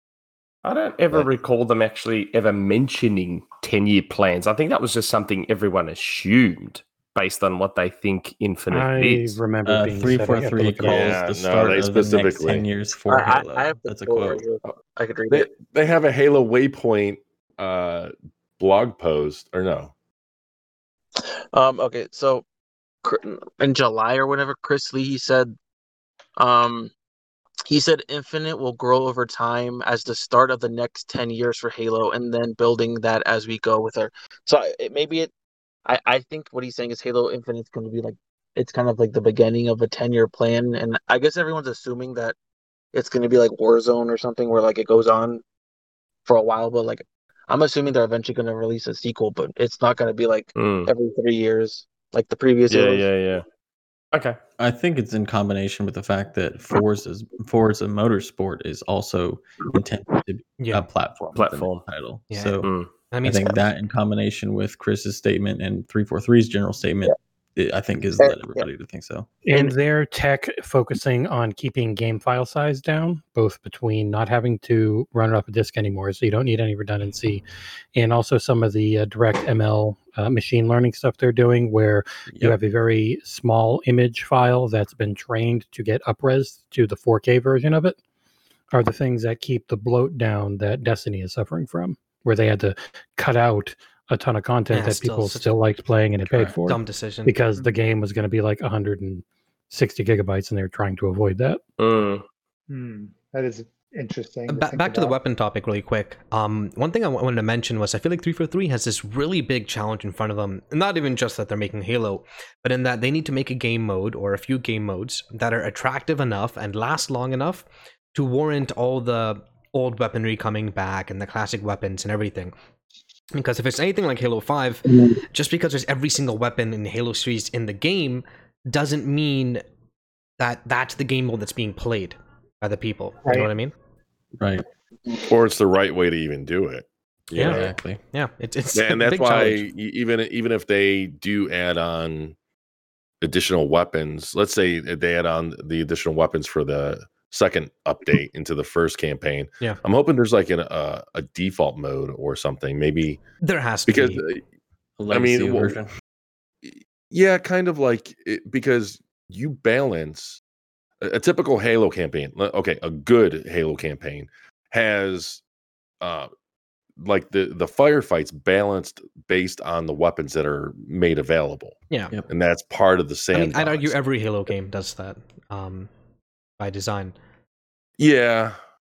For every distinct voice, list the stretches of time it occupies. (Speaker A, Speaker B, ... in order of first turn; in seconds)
Speaker A: 0.6-9.4, 50.6-50.9, 52.7-53.5, 54.1-54.4, 61.4-61.9, 62.6-62.9, 101.8-102.2
Speaker B: 8.7-11.3, 69.5-77.4, 78.0-88.0, 88.7-101.6
Speaker C: 9.7-14.4, 54.6-62.7, 63.2-69.3, 82.3-82.6, 96.2-96.6, 134.4-134.6, 137.4-138.0, 155.0-155.9
Speaker D: 10.8-12.7, 15.3-19.9, 135.2-137.8, 138.7-142.3, 143.2-153.2, 153.9-154.4, 155.1-155.8, 156.6-160.4, 161.0-165.4, 166.0-166.3, 167.0-171.8, 172.3-173.9, 178.0-178.6
Speaker E: 13.1-15.5, 21.5-22.4, 23.0-25.6, 26.4-26.9, 27.7-35.3, 35.9-42.4, 42.9-45.4, 46.3-53.1, 68.2-68.7
Speaker F: 60.6-60.9, 62.3-62.6, 63.1-63.6, 94.7-95.5, 96.6-97.3, 104.5-122.5, 123.3-129.6, 130.4-133.7, 137.3-137.6, 138.1-139.6, 153.4-154.2, 173.3-175.9, 176.6-177.1
Speaker G: 102.7-105.1